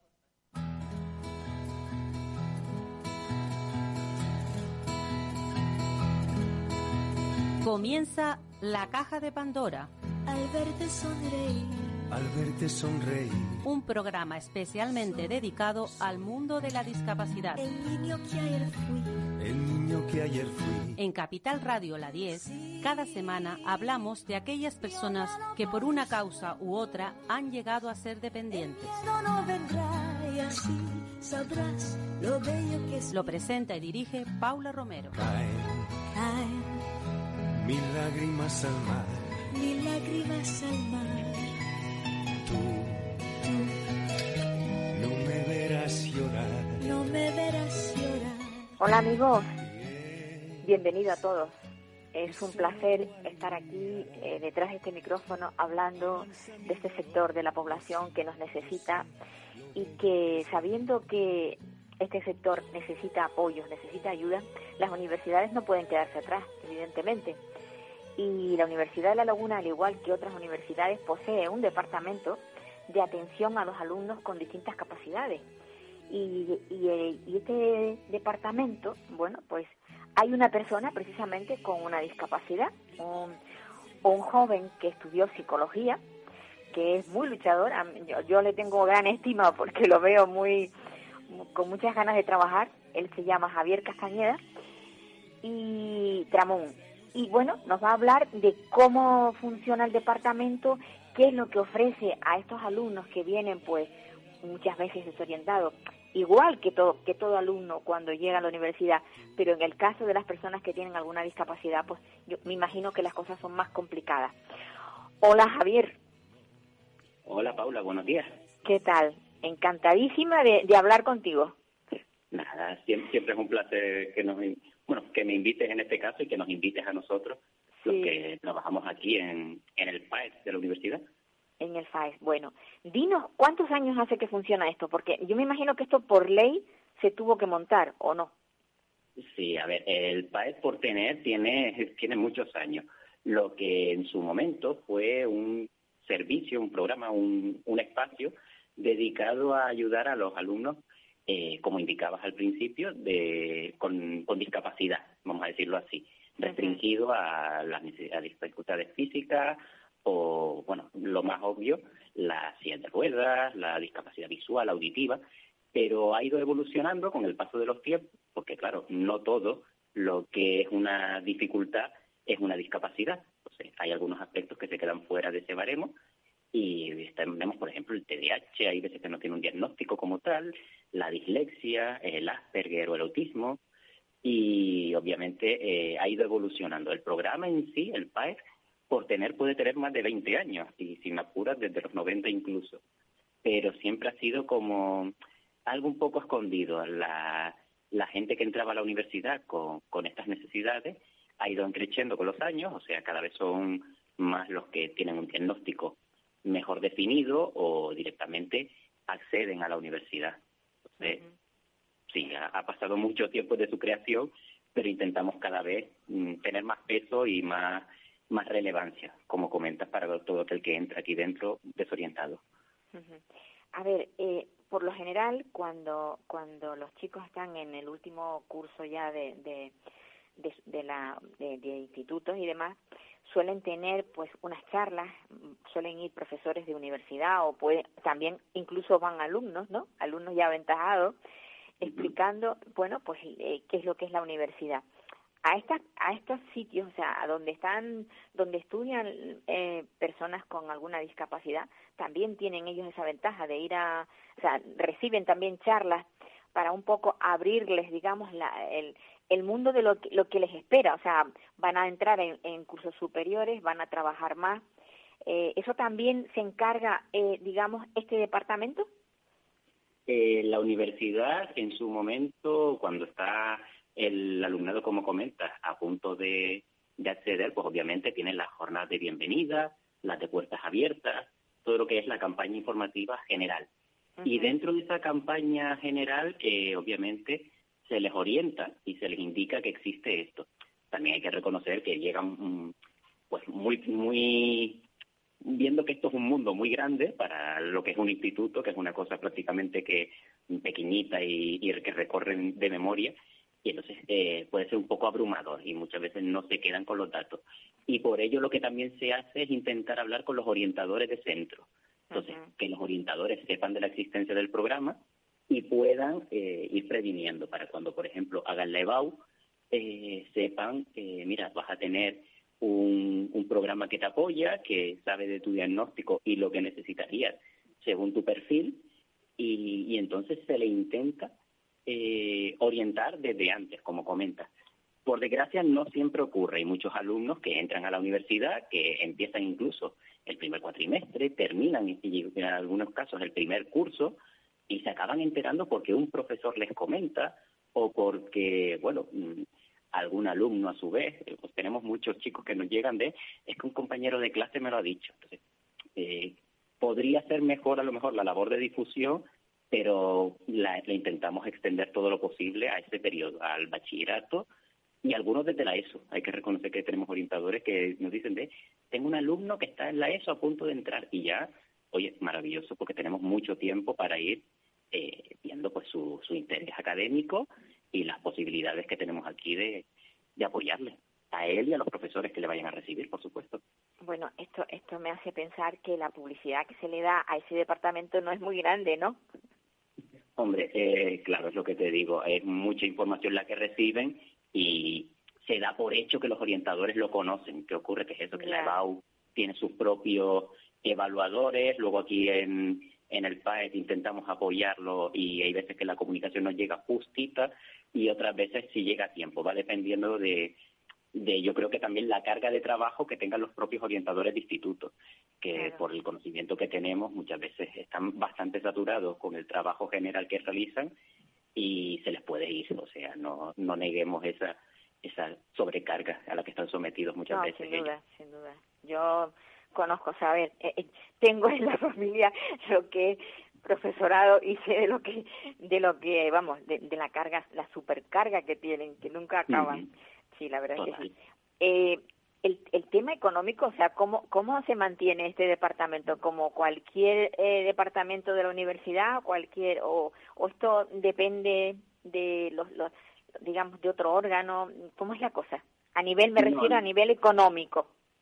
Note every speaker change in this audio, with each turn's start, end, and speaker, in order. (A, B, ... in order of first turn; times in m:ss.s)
0:07.6-0:09.9 A
0:10.2-0:12.0 B
0:12.1-0:13.6 C
0:13.6-0:17.6 A
0:17.6-0:19.3 B
0:19.4-0:21.0 C
0:21.0-0:29.0 A
0:22.3-0:23.1 B
0:24.9-0:26.1 B
0:28.5-0:33.3 B
0:33.1-0:35.2 A
0:35.1-0:36.0 C
0:36.1-0:36.8 B
0:37.5-0:39.4 C
0:39.5-0:41.5 B
0:42.4-0:43.2 C
0:43.4-0:43.8 B
0:44.9-0:46.8 C
0:46.8-0:48.7 B
0:48.8-0:49.5 D
0:50.0-0:50.4 C
0:50.6-0:51.6 D
0:52.1-0:59.1 D
0:59.7-1:07.4 D
1:08.2-1:15.4 D
1:16.1-1:23.4 D
1:24.0-1:26.0 D
1:26.7-1:30.7 D
1:31.3-1:34.4 D
1:35.4-1:43.9 D
1:44.4-1:54.3 D
1:55.2-1:56.0 D
1:57.2-1:58.4 E
1:58.6-2:01.6 D
2:02.3-2:11.0 E
2:07.8-2:08.1 D
2:11.6-2:18.3 D
2:19.2-2:45.2 E
2:36.5-2:36.8 D
2:45.7-2:55.9 E
2:56.5-3:03.6 E
3:04.2-3:12.8 E
3:13.4-3:15.1 E
3:15.7-3:30.4 E
3:30.9-3:31.2 E
3:32.1-3:42.4 E
3:42.9-3:43.2 D
3:43.7-3:49.7 D
3:50.4-4:01.2 D
4:01.8-4:04.8 D
4:05.4-4:24.6 D
4:25.2-4:28.9 D
4:30.1-4:43.7 E
4:44.2-4:44.5 D
4:44.2-4:52.7 E
4:53.3-4:54.8 E
4:55.4-5:28.9 E
5:12.1-5:12.5 D
5:29.4-5:31.3 E
5:31.9-5:34.5 E
5:35.0-5:44.2 E
5:44.7-5:55.4 E
5:56.0-6:04.5 E
6:05.0-6:19.8 E
6:20.4-6:23.6 E
6:24.0-6:29.2 D
6:30.4-6:50.6 E
6:38.3-6:38.8 D
6:51.1-7:00.9 E
6:55.6-6:55.8 D
7:01.5-7:07.9 E
7:07.3-7:19.8 D
7:19.5-7:19.9 E
7:20.3-7:21.1 D
7:20.8-7:21.1 E
7:21.6-7:37.9 D
7:36.4-7:36.8 E